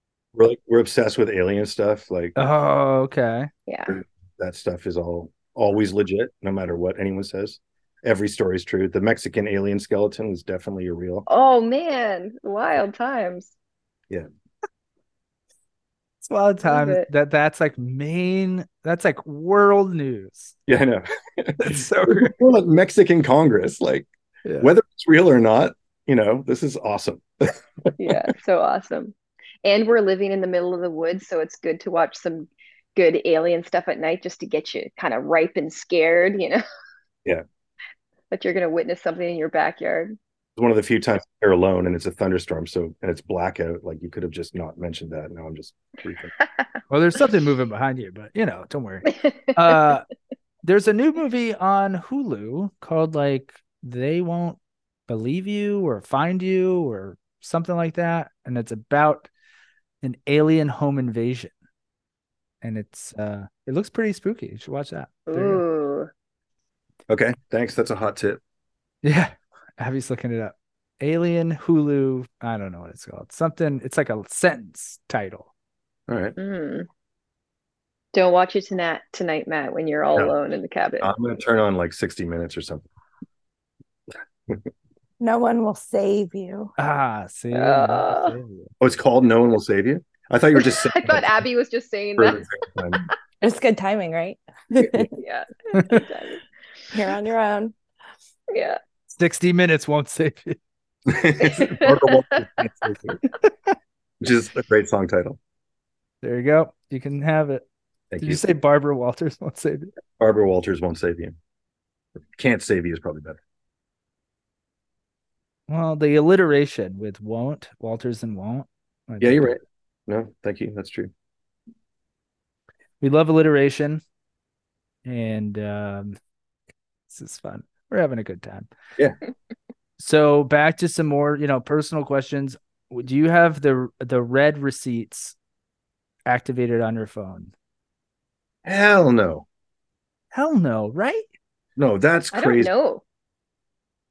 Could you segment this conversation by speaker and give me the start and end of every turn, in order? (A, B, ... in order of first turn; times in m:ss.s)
0:00.3-0:02.4 A
0:02.4-0:03.5 B
0:03.7-0:04.0 C
0:03.9-0:11.3 A
0:11.3-0:13.5 C
0:16.2-0:20.6 B
0:16.6-0:17.1 C
0:20.7-0:24.1 A
0:21.6-0:22.3 B
0:24.6-0:28.2 A
0:28.0-0:36.6 C
0:38.3-0:40.2 C
0:40.6-0:46.3 A
0:46.9-0:50.0 B
0:49.3-0:49.7 C
0:50.6-0:59.3 B
1:00.0-1:01.5 B
1:02.6-1:05.6 B
1:05.3-1:06.1 C
1:07.1-1:08.4 A
1:09.0-1:15.5 B
1:16.1-1:16.3 A
1:16.4-1:16.9 C
1:18.1-1:21.1 C
1:21.0-1:22.8 A
1:25.2-1:26.7 D
1:26.8-1:28.7 B
1:27.5-1:28.3 C
1:28.8-1:31.4 A
1:30.6-1:32.4 C
1:32.2-1:33.1 A
1:33.4-1:35.1 D
1:34.8-1:35.1 A
1:35.2-1:36.4 C
1:35.7-1:36.0 B
1:36.9-1:37.7 D
1:38.5-1:38.8 C
1:39.1-1:40.6 B
1:41.1-1:43.2 A
1:41.4-1:42.2 C
1:44.2-1:45.4 A
1:46.2-1:47.6 B
1:48.1-1:48.4 A
1:48.2-1:49.9 B
1:50.2-1:51.3 A
1:52.3-1:53.4 A
1:55.7-1:59.5 B
1:59.2-2:01.1 A
2:03.0-2:04.0 B
2:05.0-2:06.2 B
2:07.1-2:08.7 B
2:10.0-2:15.3 B
2:16.2-2:17.5 B
2:18.6-2:19.4 A
2:20.3-2:21.2 B
2:21.8-2:22.7 A
2:22.3-2:23.0 C